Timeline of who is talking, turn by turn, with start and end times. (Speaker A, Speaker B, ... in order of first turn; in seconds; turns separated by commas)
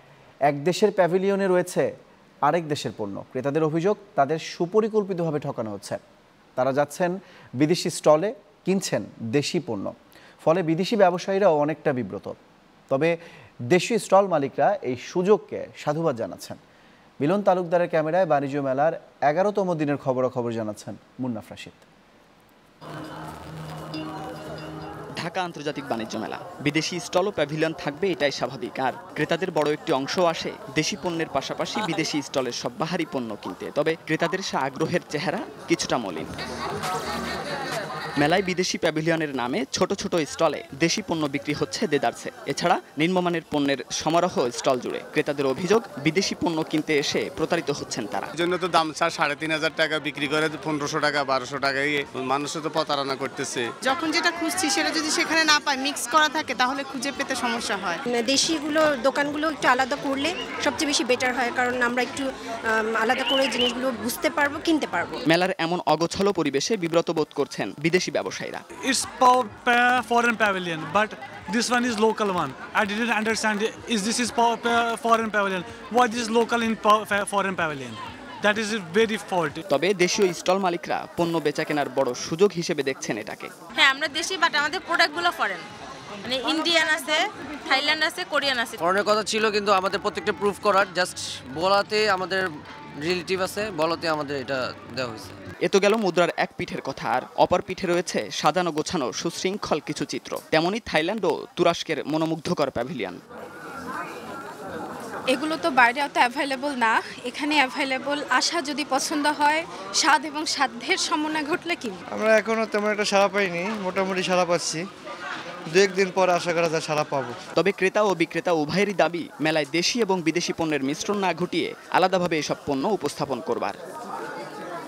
Speaker A: 0.5-1.9, Speaker A: 2.5-6.0, Speaker A: 6.6-12.4, Speaker A: 12.9-13.2, Speaker A: 13.7-16.6, Speaker A: 17.2-21.8, Speaker B: 25.2-36.3, Speaker B: 38.2-48.3, Speaker C: 48.4-53.7, Speaker D: 53.8-58.0, Speaker E: 58.1-65.2, Speaker B: 65.3-68.6, Speaker F: 68.8-79.6, Speaker B: 79.7-83.5, Speaker G: 83.8-85.6, Speaker G: 86.2-88.8, Speaker H: 89.0-92.5, Speaker H: 93.0-95.4, Speaker B: 95.6-103.2, Speaker I: 105.3-112.0, Speaker J: 112.2-114.8, Speaker J: 115.8-117.3, Speaker B: 117.6-123.8